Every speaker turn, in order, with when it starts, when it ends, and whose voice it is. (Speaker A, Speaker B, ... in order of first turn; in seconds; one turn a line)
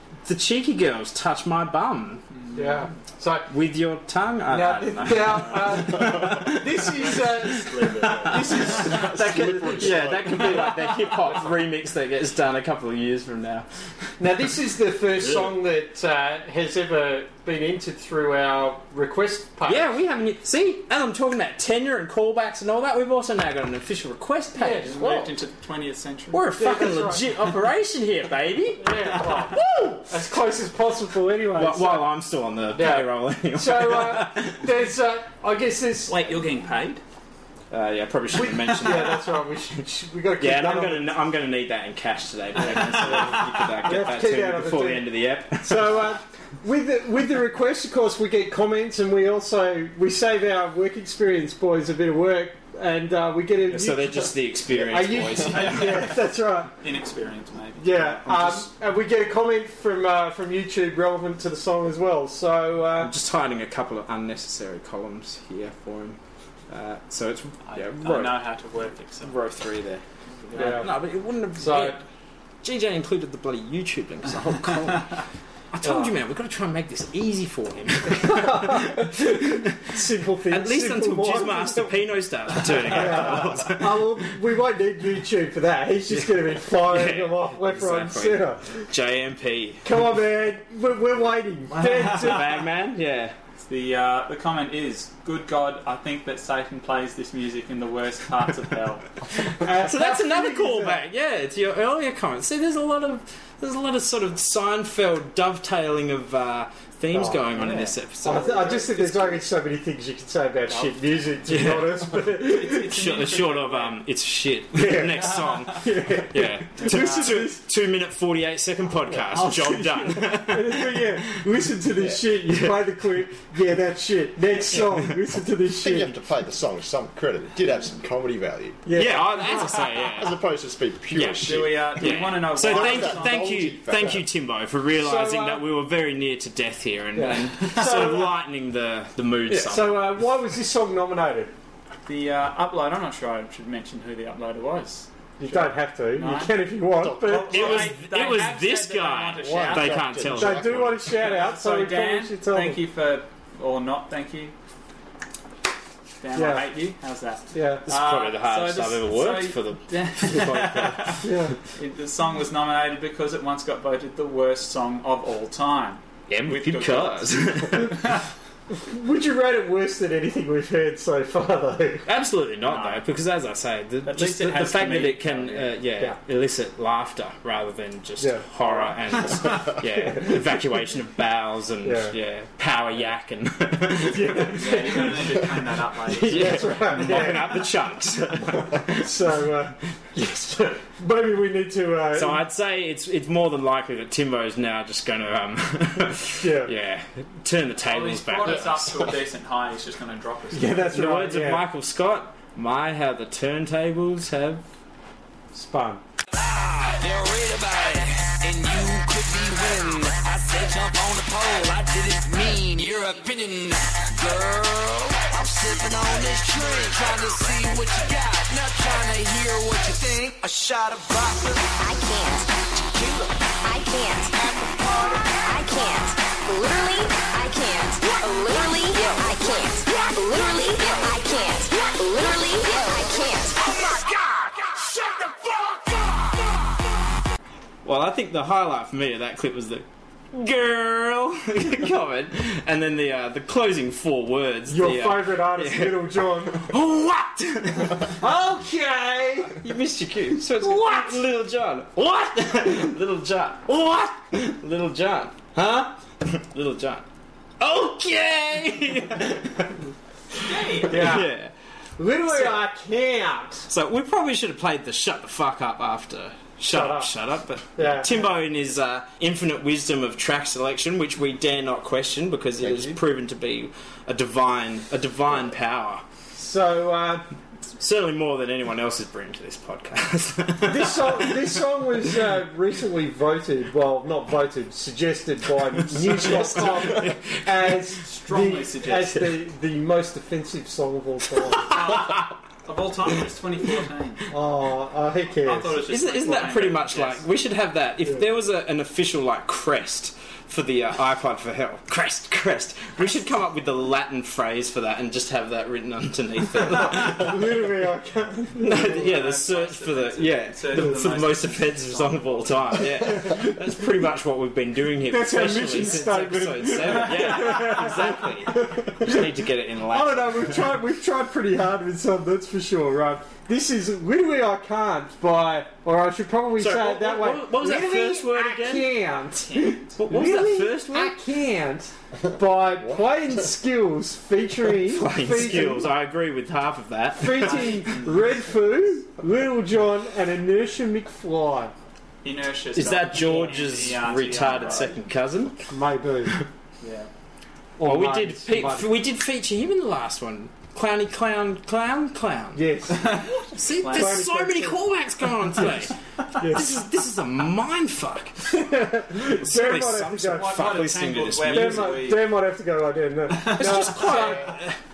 Speaker A: 0.2-2.2
Speaker B: 2.4-2.9
Speaker C: 2.5-3.5
Speaker A: 3.5-13.7
Speaker C: 4.5-9.7
Speaker B: 7.0-8.9
Speaker D: 8.6-10.8
Speaker C: 14.2-19.9
Speaker A: 19.6-25.4
Speaker C: 24.6-24.9
Speaker B: 24.8-26.5
Speaker A: 26.3-30.1
Speaker C: 26.6-27.3
Speaker C: 28.8-29.6
Speaker C: 30.1-32.1
Speaker A: 31.6-34.7
Speaker C: 32.7-36.2
Speaker B: 36.1-37.0
Speaker A: 37.7-39.5
Speaker C: 38.3-41.2
Speaker A: 40.4-46.1
Speaker C: 42.6-56.7
Speaker A: 53.7-56.1
Speaker B: 55.5-56.3
Speaker B: 56.8-57.9
Speaker C: 57.8-63.1
Speaker A: 57.9-58.7
Speaker A: 63.0-68.4
Speaker B: 67.7-69.4
Speaker A: 69.2-72.0
Speaker B: 70.5-70.8
Speaker C: 70.5-70.9
Speaker C: 71.6-72.0
Speaker A: 72.6-75.2
Speaker A: 75.7-79.8
Speaker C: 75.8-76.1
Speaker C: 78.2-82.0
Speaker A: 80.5-84.2
Speaker C: 82.9-88.9
Speaker A: 86.1-89.8
Speaker C: 89.8-92.5
Speaker B: 91.7-92.5
Speaker A: 92.1-93.4
Speaker B: 93.7-99.1
Speaker C: 99.6-101.0
Speaker A: 99.6-109.4
Speaker C: 107.1-107.5
Speaker B: 107.5-108.0
Speaker C: 108.2-112.8
Speaker B: 110.7-111.3
Speaker A: 111.5-121.3
Speaker B: 112.3-114.0
Speaker C: 114.7-117.6
Speaker B: 116.8-117.4
Speaker C: 119.3-126.1
Speaker A: 122.5-122.8
Speaker D: 125.7-134.2
Speaker C: 128.9-129.8
Speaker A: 128.9-130.4
Speaker A: 131.1-140.1
Speaker B: 131.4-133.4
Speaker C: 135.0-135.7
Speaker C: 137.2-138.3
Speaker C: 139.5-141.5
Speaker B: 142.1-146.6
Speaker C: 145.4-147.7
Speaker D: 147.0-147.9
Speaker B: 147.2-150.2
Speaker A: 147.5-150.9
Speaker D: 149.4-151.2
Speaker C: 150.3-152.8
Speaker B: 151.1-154.5
Speaker B: 156.2-168.2
Speaker C: 156.3-156.7
Speaker C: 157.5-157.8
Speaker A: 157.8-161.2
Speaker C: 161.2-161.5
Speaker A: 166.3-168.1
Speaker C: 168.7-172.1
Speaker A: 172.1-185.0
Speaker B: 172.6-173.1
Speaker B: 174.1-175.7
Speaker C: 178.2-178.9
Speaker C: 180.0-180.4
Speaker C: 181.8-182.2
Speaker C: 184.1-185.3
Speaker B: 184.5-187.1
Speaker A: 186.1-189.2
Speaker C: 186.2-187.7
Speaker C: 188.9-192.4
Speaker A: 192.1-199.0
Speaker C: 196.4-196.7
Speaker B: 197.8-200.9
Speaker C: 200.5-201.7
Speaker A: 200.9-204.7
Speaker C: 205.5-206.0
Speaker E: 206.4-221.7
Speaker F: 221.8-222.5
Speaker E: 222.8-223.4
Speaker F: 223.6-224.4
Speaker E: 224.3-225.4
Speaker F: 225.4-233.7
Speaker E: 233.7-235.0
Speaker A: 237.8-248.2
Speaker C: 244.7-246.7
Speaker C: 248.2-249.6
Speaker A: 249.5-257.1
Speaker C: 250.6-251.2
Speaker A: 257.6-259.8
Speaker A: 260.4-261.5
Speaker B: 260.4-261.1
Speaker C: 260.9-261.3
Speaker C: 262.0-263.7
Speaker A: 262.2-262.6
Speaker A: 263.7-276.1
Speaker C: 266.7-267.1
Speaker C: 267.8-268.3
Speaker C: 276.4-277.3
Speaker A: 277.8-281.6
Speaker C: 280.6-291.8
Speaker A: 285.8-287.7
Speaker B: 288.1-289.2
Speaker B: 291.7-294.3
Speaker C: 294.3-295.8
Speaker B: 295.4-297.2
Speaker A: 295.9-307.4
Speaker C: 306.8-309.1
Speaker A: 308.6-320.7
Speaker B: 308.9-312.8
Speaker C: 315.1-319.3
Speaker C: 319.9-335.9
Speaker A: 326.6-328.9
Speaker B: 329.5-329.9
Speaker A: 330.0-331.2
Speaker D: 332.7-333.2
Speaker A: 334.8-337.9
Speaker C: 337.2-341.7
Speaker B: 337.4-338.2
Speaker B: 342.2-345.0
Speaker A: 342.8-345.6
Speaker C: 345.7-346.4
Speaker B: 346.8-347.1
Speaker C: 347.8-348.9
Speaker A: 347.8-362.2
Speaker C: 352.6-353.2
Speaker B: 352.9-354.3
Speaker C: 353.9-354.9
Speaker C: 356.4-356.6
Speaker C: 358.5-360.7
Speaker B: 360.4-362.4
Speaker C: 361.5-364.5
Speaker B: 363.3-364.0
Speaker A: 363.4-364.8